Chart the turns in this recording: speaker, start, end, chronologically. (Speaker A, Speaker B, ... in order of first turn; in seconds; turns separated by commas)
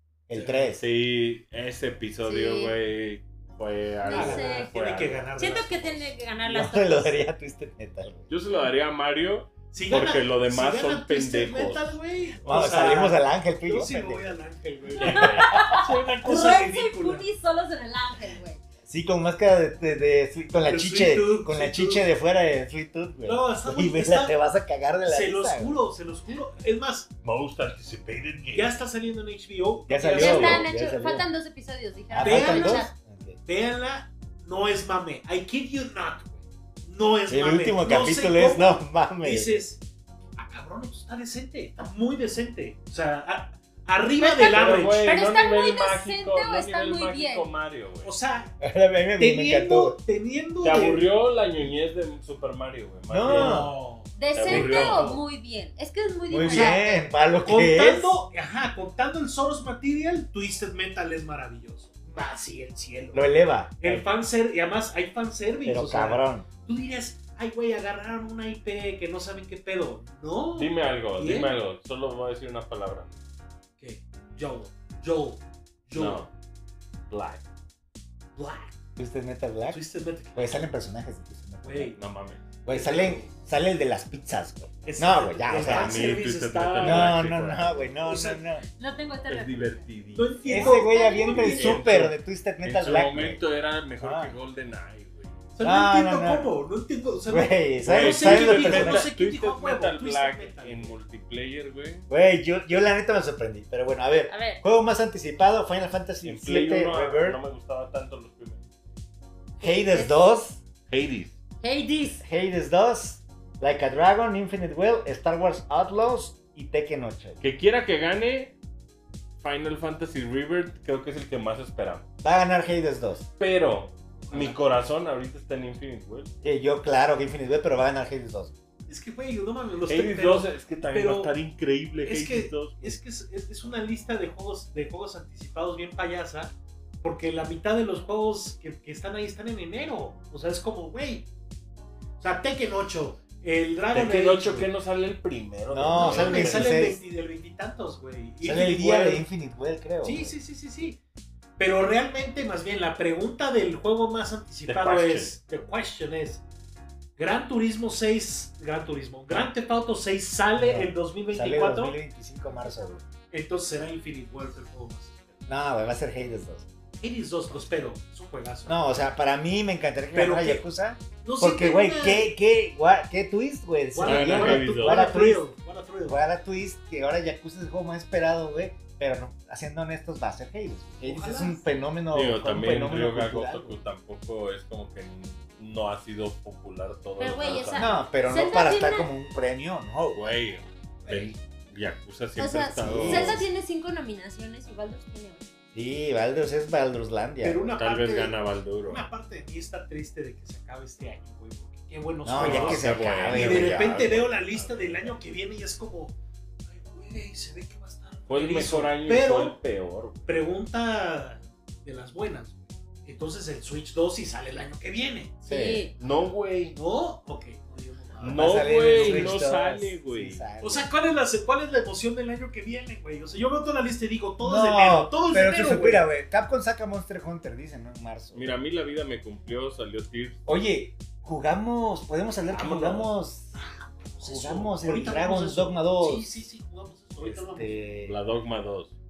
Speaker A: 0.3-0.8, Speaker B: 0.3-0.7, Speaker C: 0.8-5.2, Speaker D: 2.2-2.7, Speaker D: 4.0-4.7, Speaker B: 4.1-6.1, Speaker D: 5.4-7.2, Speaker A: 6.4-8.3, Speaker C: 8.3-12.8, Speaker B: 9.7-17.3, Speaker A: 12.4-14.4, Speaker C: 15.0-16.1, Speaker D: 15.0-18.6, Speaker A: 15.4-15.8, Speaker A: 18.9-25.8, Speaker B: 20.6-22.1, Speaker B: 23.2-24.4, Speaker B: 25.0-27.1, Speaker C: 27.2-28.8, Speaker B: 28.5-30.6, Speaker A: 29.9-31.3, Speaker D: 30.1-32.9, Speaker A: 32.1-33.4, Speaker B: 32.2-32.9, Speaker B: 33.5-39.8, Speaker A: 37.3-39.6, Speaker B: 40.4-45.1, Speaker D: 44.2-47.5, Speaker C: 44.4-48.1, Speaker B: 48.0-48.5, Speaker A: 48.6-50.0, Speaker B: 49.2-51.1, Speaker C: 50.6-53.7, Speaker A: 53.1-53.7, Speaker B: 53.2-55.2, Speaker D: 54.1-57.1, Speaker C: 54.3-55.1, Speaker A: 56.3-58.2, Speaker B: 56.5-56.8, Speaker B: 57.4-71.5, Speaker A: 63.1-64.0, Speaker A: 65.7-66.5, Speaker C: 70.5-73.2, Speaker B: 73.8-76.3, Speaker C: 75.9-76.3, Speaker C: 77.1-77.4, Speaker B: 78.3-78.7, Speaker A: 79.0-79.8, Speaker B: 79.7-80.6, Speaker A: 80.3-81.9, Speaker B: 81.6-82.0, Speaker C: 81.9-82.4, Speaker A: 82.6-86.2, Speaker B: 82.7-83.3, Speaker B: 84.8-87.2, Speaker C: 85.5-87.9, Speaker A: 86.8-88.6, Speaker B: 88.0-88.5, Speaker D: 88.7-89.9, Speaker C: 89.3-90.4, Speaker B: 90.1-91.9, Speaker A: 90.5-93.4, Speaker D: 90.5-91.6, Speaker C: 91.3-95.4, Speaker A: 94.0-94.3, Speaker B: 95.5-101.0, Speaker A: 95.6-96.5, Speaker A: 97.3-99.1, Speaker C: 97.8-102.1, Speaker A: 102.1-107.4, Speaker D: 104.3-104.6, Speaker C: 106.2-108.6, Speaker A: 109.6-110.6, Speaker D: 109.6-110.2, Speaker C: 110.9-111.3, Speaker D: 111.6-112.2, Speaker A: 112.2-117.4, Speaker C: 117.4-118.5, Speaker C: 119.4-122.0, Speaker A: 122.2-123.2, Speaker C: 123.4-126.3, Speaker B: 124.2-124.6, Speaker A: 126.4-128.5, Speaker B: 128.9-131.3, Speaker C: 129.9-133.0, Speaker B: 132.0-141.3, Speaker B: 142.2-144.7, Speaker C: 143.9-146.8, Speaker A: 145.7-147.0, Speaker B: 145.9-149.2, Speaker A: 148.4-150.3, Speaker B: 150.0-151.0, Speaker B: 151.6-156.4, Speaker C: 154.7-155.3, Speaker B: 157.2-162.0, Speaker A: 160.5-163.0, Speaker B: 163.3-165.3, Speaker A: 165.5-166.7, Speaker B: 167.0-168.8, Speaker A: 168.7-175.4, Speaker B: 170.1-170.6, Speaker B: 171.2-172.3, Speaker B: 173.9-176.2, Speaker C: 174.0-175.1, Speaker A: 176.1-183.8, Speaker B: 181.0-181.8, Speaker C: 182.1-187.9, Speaker D: 187.2-189.1, Speaker A: 187.8-190.3, Speaker C: 190.1-193.4, Speaker A: 191.0-191.3, Speaker D: 192.4-195.5, Speaker A: 192.8-193.4, Speaker A: 195.7-197.7, Speaker B: 197.4-206.2, Speaker C: 197.7-199.1, Speaker A: 202.2-203.8, Speaker C: 202.3-205.2, Speaker B: 206.7-209.6, Speaker C: 208.3-210.3, Speaker B: 210.2-215.4, Speaker A: 215.4-215.8, Speaker D: 215.5-215.9, Speaker C: 216.0-216.8, Speaker B: 216.7-219.4, Speaker C: 218.2-220.4, Speaker A: 218.2-220.9, Speaker B: 220.6-226.0, Speaker A: 224.4-228.5, Speaker C: 228.3-230.4, Speaker A: 230.4-233.6, Speaker C: 232.5-233.1, Speaker B: 233.5-237.9, Speaker A: 234.2-236.4, Speaker A: 237.2-238.2, Speaker C: 238.1-238.9